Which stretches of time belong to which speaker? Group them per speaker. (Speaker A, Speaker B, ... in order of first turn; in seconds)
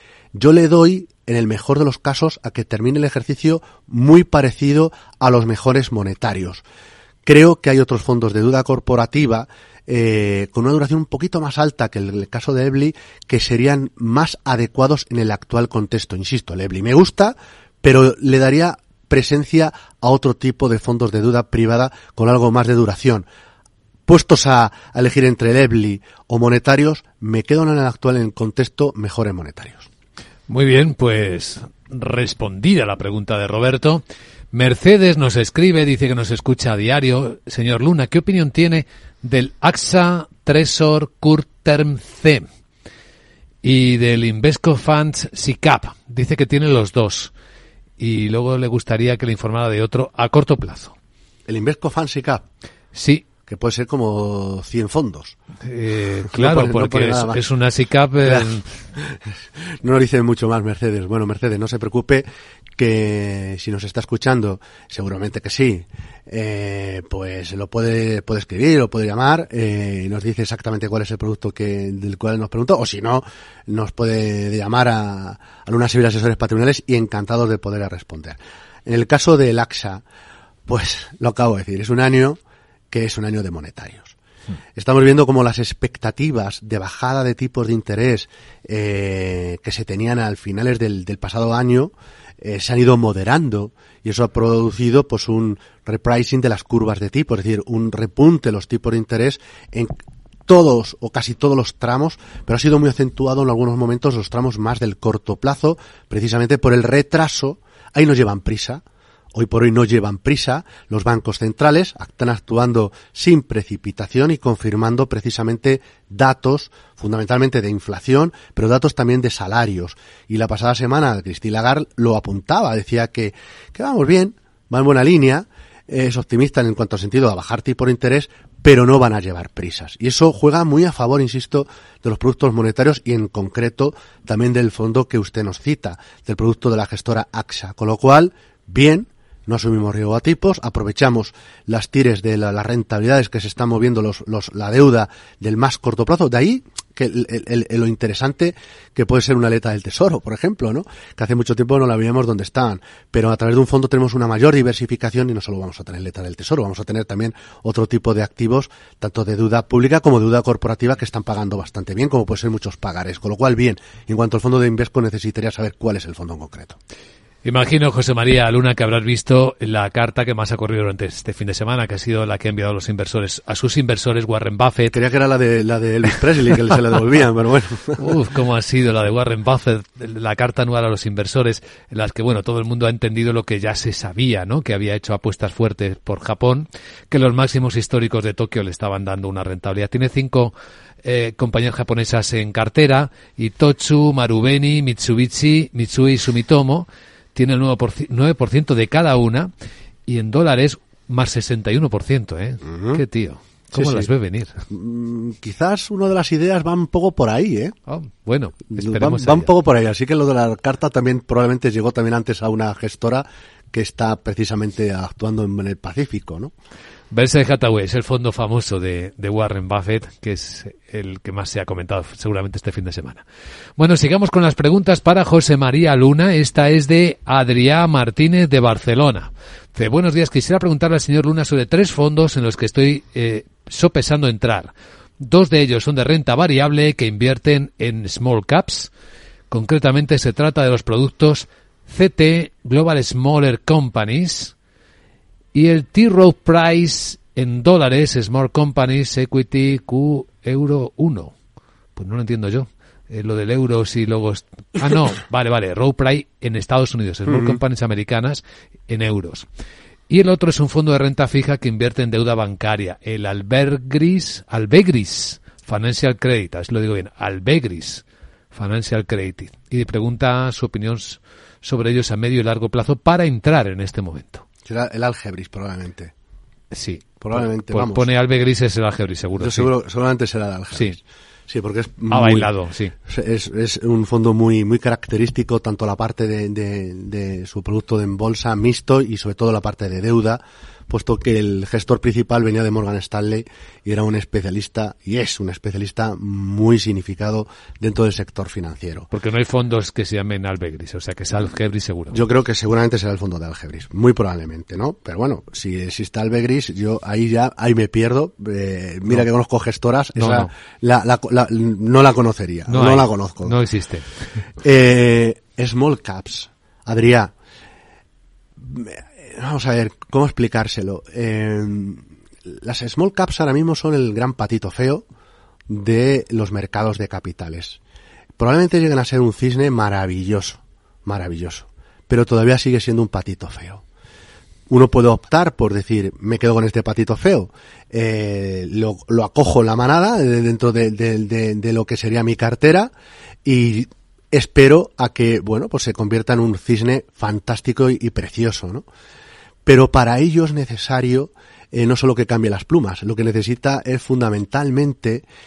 Speaker A: 0.3-6.6, 7.2-23.2, 24.1-29.9, 51.5-52.5, 53.5-55.4, 56.3-57.4, 58.2-59.2, 59.8-62.2, 62.8-80.0, 80.7-82.4, 82.9-84.1, 84.8-100.0, 100.5-166.8, 174.9-178.0, 202.7-203.0, 203.7-204.1, 204.7-207.8, 208.7-216.5, 274.7-276.1, 277.2-278.1, 279.4-282.5, 283.1-299.1, 302.1-313.6, 314.6-317.3, 318.6-325.1, 325.7-327.8, 328.4-333.8, 334.7-342.9, 343.4-348.9, 349.6-355.2
Speaker B: 30.5-42.5, 43.6-47.3, 48.0-50.9, 52.9-53.3, 55.6-58.7, 167.4-175.0, 178.0-199.5, 200.1-204.6, 207.9-209.5, 217.1-223.2, 223.8-238.9, 239.5-244.5, 245.5-251.3, 252.0-259.5, 260.1-274.4, 276.7-279.7, 282.1-282.9, 299.1-302.2, 310.2-310.5, 312.7-314.1